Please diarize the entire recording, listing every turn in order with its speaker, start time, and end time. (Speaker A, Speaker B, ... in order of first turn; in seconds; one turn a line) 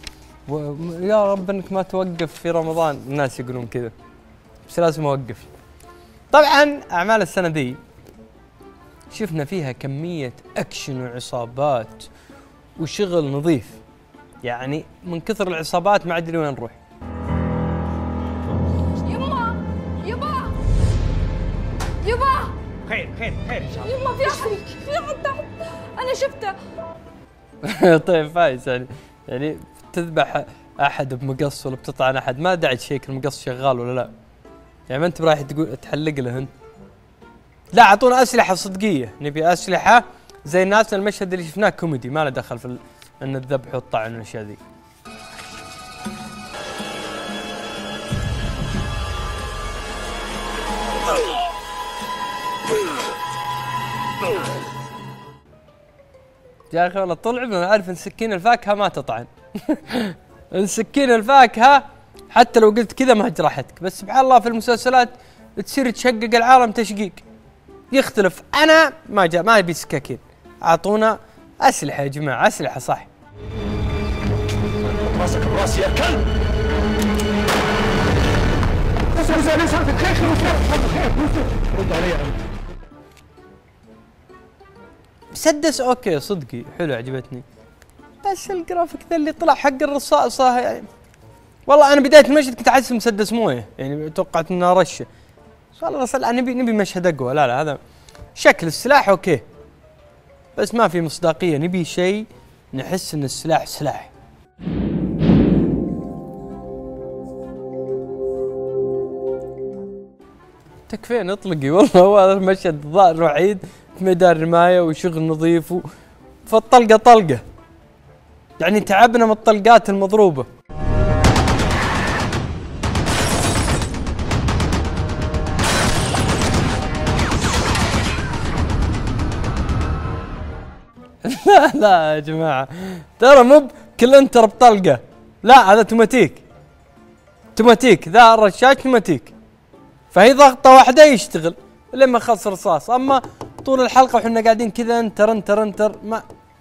Speaker A: 0.5-3.9
Speaker A: 4.7-5.5
Speaker A: 6.3-7.8
Speaker A: 9.1-12.1
Speaker A: 12.8-13.8
Speaker A: 14.4-16.8
Speaker B: 19.1-20.5
Speaker B: 22.1-22.5
Speaker A: 22.9-23.8
Speaker B: 23.8-26.5
Speaker A: 27.6-34.1
Speaker A: 34.9-36.5
Speaker A: 37.7-44.6
Speaker A: 56.7-67.2
Speaker A: 67.9-73.1
Speaker C: 74.9-76.3
Speaker C: 79.1-82.5
Speaker A: 85.3-87.4
Speaker A: 88.2-90.9
Speaker A: 91.7-95.1
Speaker A: 95.8-97.8
Speaker A: 98.4-99.4
Speaker A: 100.6-104.1
Speaker A: 110.9-115.8
Speaker A: 116.5-117.4
Speaker A: 118.6-120.5
Speaker A: 131.2-136.4
Speaker A: 137.6-139.3
Speaker A: 140.1-146.2